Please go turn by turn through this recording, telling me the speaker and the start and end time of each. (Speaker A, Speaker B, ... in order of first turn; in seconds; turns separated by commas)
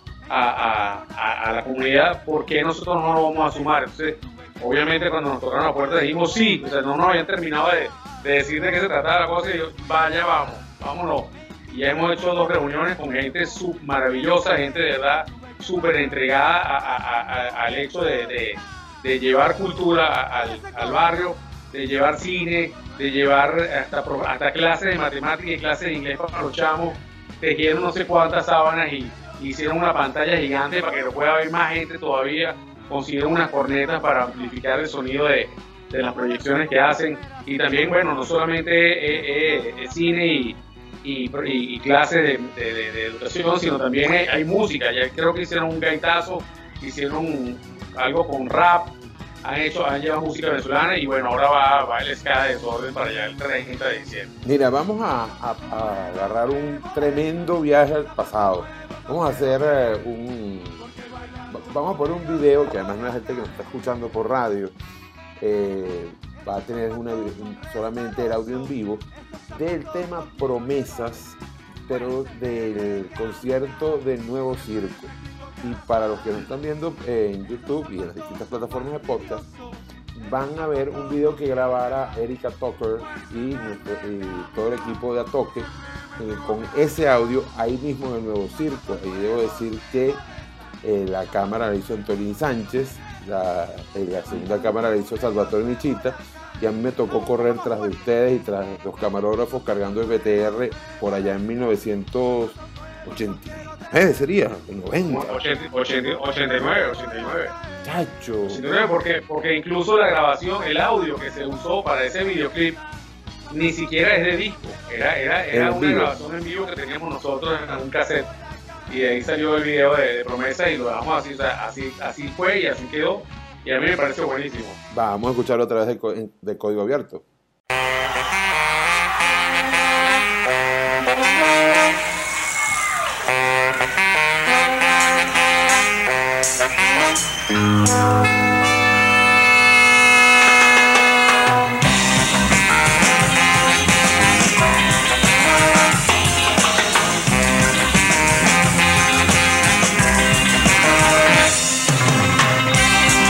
Speaker A: 0.3-54.3, Speaker B: 54.4-60.9, Speaker B: 61.5-64.7, Speaker B: 65.4-79.5, Speaker B: 80.1-90.2, Speaker B: 90.8-105.3, Speaker A: 105.1-107.5, Speaker B: 107.8-108.6, Speaker A: 108.5-112.8, Speaker A: 113.5-118.3, Speaker B: 115.5-116.1, Speaker A: 118.9-124.8, Speaker B: 124.9-127.2